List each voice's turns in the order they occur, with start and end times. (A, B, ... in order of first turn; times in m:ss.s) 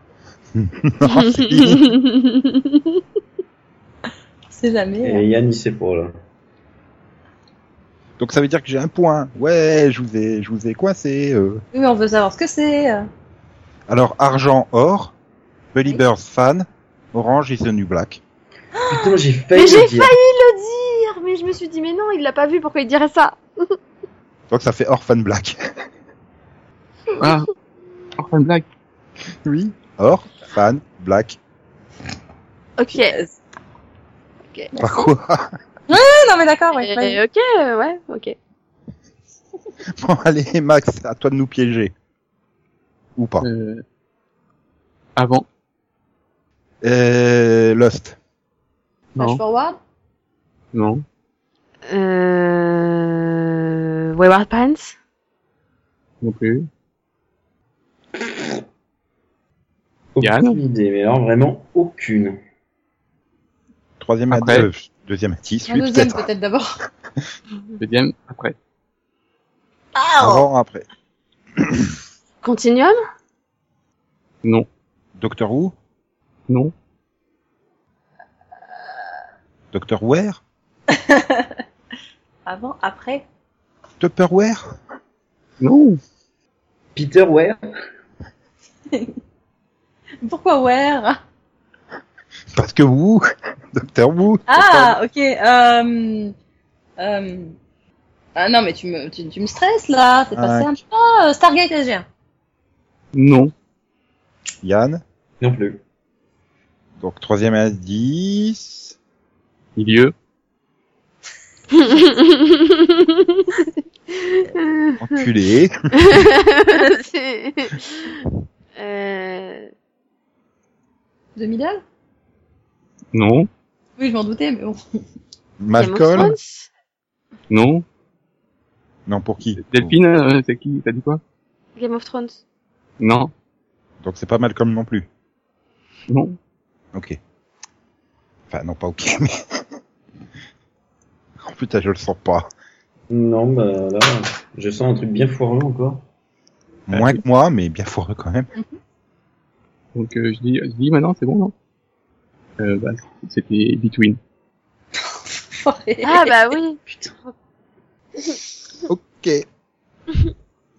0:00.5-0:01.9 A
0:01.1-0:03.0 B
0:04.5-0:05.2 C
0:05.0-0:06.1 D
0:08.2-0:11.6 A
0:11.7-0:13.1 C
0:13.9-0:15.1 A
0:15.7-0:18.2 A
0:18.7-0:19.2 C
0:18.9-0:20.1 D
0:19.5-0:23.7 B
0:24.5-0:25.6 A
0:27.2-0:27.5 E
0:28.2-0:28.6 E
0:29.4-0:31.4 A
0:32.8-0:33.2 B
0:32.9-0:33.3 C
0:34.7-0:35.0 C
0:34.8-0:35.6 A
0:35.9-0:37.2 C
0:36.8-0:38.4 B
0:40.0-0:41.9 A
0:43.2-0:43.5 A
0:43.4-0:43.8 E
0:45.2-0:45.4 E
0:46.8-0:48.2 A
0:49.1-0:49.4 E
0:49.2-0:49.8 C
0:50.7-0:51.0 E
0:51.9-0:55.0 B
0:56.2-0:56.7 E
1:00.1-1:02.4 D
1:00.2-1:00.6 E
1:04.0-1:06.3 A
1:04.3-1:04.7 E
1:05.7-1:06.8 C
1:07.8-1:08.6 E
1:09.9-1:10.5 C
1:10.2-1:10.8 A
1:11.6-1:11.9 A
1:12.4-1:13.0 B
1:15.2-1:15.7 A
1:19.7-1:20.4 A
1:20.9-1:21.6 C
1:22.4-1:23.2 C
1:24.0-1:24.8 A
1:25.6-1:26.0 E
1:26.9-1:27.6 D
1:30.2-1:31.2 C
1:32.5-1:35.0 A
1:34.5-1:36.3 C
1:37.0-1:37.5 C
1:38.4-1:42.0 C
1:40.3-1:40.8 A
1:43.1-1:43.5 E
1:44.6-1:45.0 A
1:45.4-1:45.8 D
1:47.0-1:48.9 A
1:49.8-1:50.1 E
1:51.7-1:55.0 B
1:55.0-1:56.2 A
1:56.0-1:58.1 B
1:58.8-1:59.7 B
2:01.4-2:01.8 C
2:03.1-2:03.5 E
2:04.0-2:04.8 C
2:05.6-2:06.3 A
2:05.8-2:06.7 B
2:07.5-2:07.8 E
2:09.1-2:10.0 A
2:09.6-2:11.2 E
2:11.8-2:12.4 B
2:13.0-2:13.3 E
2:14.0-2:15.1 A
2:16.1-2:16.4 E
2:18.5-2:19.6 A
2:21.4-2:22.5 A
2:23.1-2:26.0 D
2:26.9-2:28.5 A
2:26.9-2:27.2 E
2:29.9-2:31.5 E
2:32.6-2:34.2 E
2:35.0-2:36.4 C
2:36.0-2:37.3 B
2:38.8-2:39.4 A